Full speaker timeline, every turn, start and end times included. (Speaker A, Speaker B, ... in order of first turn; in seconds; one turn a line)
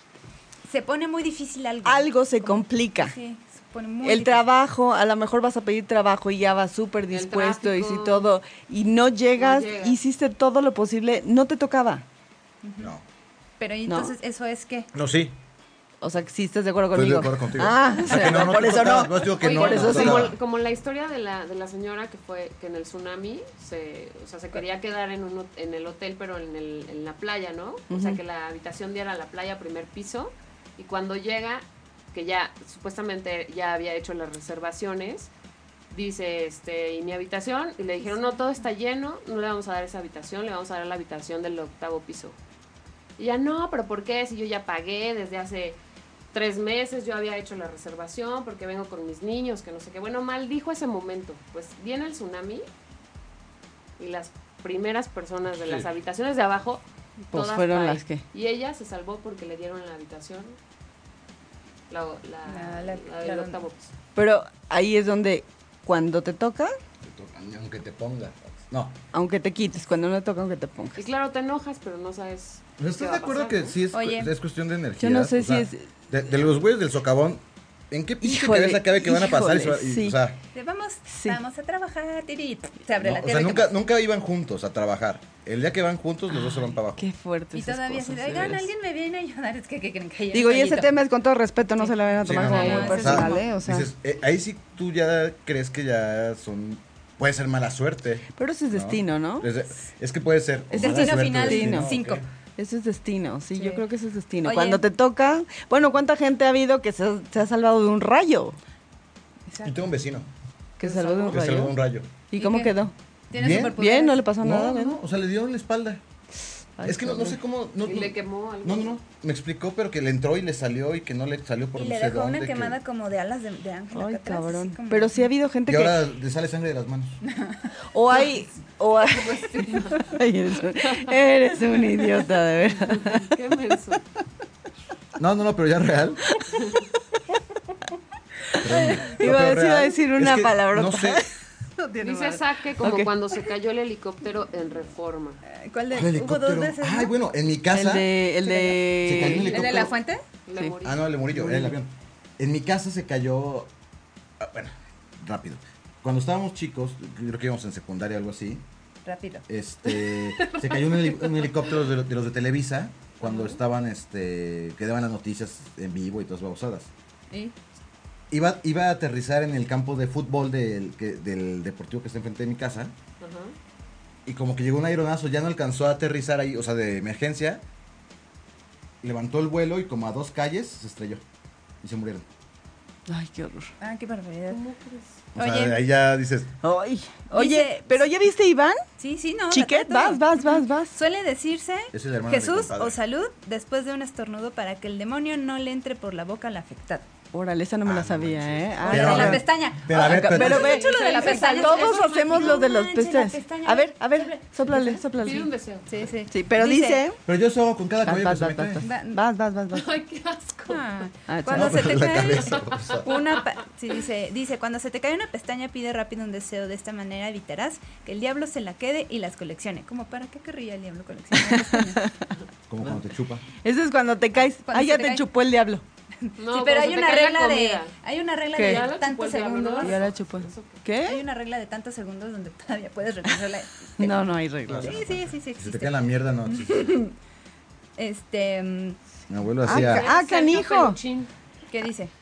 Speaker A: 0.7-4.5
Speaker B: 1.9-3.1
Speaker B: 4.0-12.0
Speaker C: 7.1-8.3
Speaker C: 9.4-10.0
Speaker A: 12.6-12.9
Speaker A: 13.6-14.9
Speaker B: 13.9-14.1
Speaker D: 14.9-15.3
Speaker B: 16.0-20.3
Speaker D: 16.9-20.4
Speaker C: 19.4-35.3
Speaker B: 27.9-28.2
Speaker C: 35.9-42.4
Speaker A: 38.0-38.6
Speaker C: 43.2-45.8
Speaker C: 46.3-52.7
Speaker C: 54.0-60.6
Speaker D: 55.5-55.9
Speaker B: 57.3-58.2
Speaker C: 61.9-63.9
Speaker A: 62.5-63.6
Speaker B: 64.2-66.8
Speaker D: 67.0-69.0
Speaker B: 69.1-71.0
Speaker C: 71.0-73.8
Speaker D: 72.8-80.4
Speaker A: 73.9-74.3
Speaker B: 75.0-75.9
Speaker B: 78.2-80.2
Speaker A: 80.5-83.8
Speaker B: 81.1-81.4
Speaker D: 83.0-87.1
Speaker B: 86.5-88.7
Speaker A: 87.5-91.0
Speaker B: 90.3-93.9
Speaker A: 91.7-93.5
Speaker D: 92.2-102.3
Speaker C: 92.5-93.3
Speaker B: 98.4-99.5
Speaker B: 100.7-101.9
Speaker A: 100.7-102.2
Speaker B: 102.6-108.6
Speaker A: 103.5-103.8
Speaker A: 104.4-104.8
Speaker A: 109.5-109.8
Speaker D: 109.6-110.3
Speaker B: 110.8-111.8
Speaker A: 110.8-111.3
Speaker C: 110.9-111.4
Speaker D: 111.3-112.1
Speaker B: 112.3-112.9
Speaker A: 112.4-112.8
Speaker A: 113.3-114.2
Speaker D: 113.3-113.8
Speaker B: 113.7-115.0
Speaker D: 114.4-116.0
Speaker B: 116.8-117.4
Speaker D: 116.8-122.8
Speaker C: 117.8-119.0
Speaker A: 121.8-125.3
Speaker B: 123.9-126.0
Speaker D: 125.7-127.2
Speaker A: 127.2-127.7
Speaker B: 127.9-133.3
Speaker A: 129.1-130.1
Speaker C: 130.8-131.2
Speaker C: 132.8-134.0
Speaker D: 135.2-136.2
Speaker B: 138.6-143.1
Speaker D: 138.6-141.2
Speaker C: 142.0-145.4
Speaker A: 145.5-147.1
Speaker D: 145.9-148.1
Speaker B: 147.7-149.7
Speaker A: 148.4-150.2
Speaker D: 149.0-149.9
Speaker C: 149.2-149.8
Speaker C: 150.5-151.1
Speaker D: 150.8-153.7
Speaker B: 151.3-151.8
Speaker D: 154.4-158.6
Speaker A: 159.1-159.4
Speaker D: 159.5-166.9
Speaker C: 160.1-161.7
Speaker C: 163.2-163.6
Speaker D: 168.3-172.9
Speaker C: 173.2-173.6
Speaker D: 174.3-177.6
Speaker D: 179.0-181.2
Speaker D: 181.8-182.2
Speaker B: 183.1-183.7
Speaker A: 183.8-184.6
Speaker C: 184.5-185.2
Speaker D: 185.3-186.5
Speaker A: 185.4-185.8
Speaker B: 186.6-188.8
Speaker A: 187.3-188.1
Speaker A: 189.0-197.1
Speaker B: 189.5-190.9
Speaker D: 191.9-193.0
Speaker B: 197.3-205.5
Speaker D: 197.8-200.8
Speaker A: 198.8-207.0
Speaker C: 200.5-202.6
Speaker C: 205.2-206.0
Speaker B: 206.3-207.2
Speaker D: 207.3-208.8
Speaker B: 208.1-209.9
Speaker A: 208.8-209.2
Speaker C: 209.7-210.9
Speaker A: 210.7-222.1
Speaker B: 211.3-212.0
Speaker D: 211.5-213.1
Speaker C: 212.5-213.2
Speaker B: 221.8-222.1
Speaker D: 222.7-223.4
Speaker B: 223.6-225.8
Speaker A: 224.5-225.3
Speaker A: 226.2-230.0
Speaker C: 226.4-227.9
Speaker B: 228.6-228.9
Speaker C: 228.6-230.8
Speaker B: 229.8-231.2
Speaker A: 231.0-234.1
Speaker B: 234.0-235.0
Speaker D: 234.7-236.9
Speaker A: 234.8-237.1
Speaker A: 238.0-239.0
Speaker D: 239.3-240.1
Speaker B: 239.6-241.0
Speaker C: 239.7-241.3
Speaker A: 241.7-242.1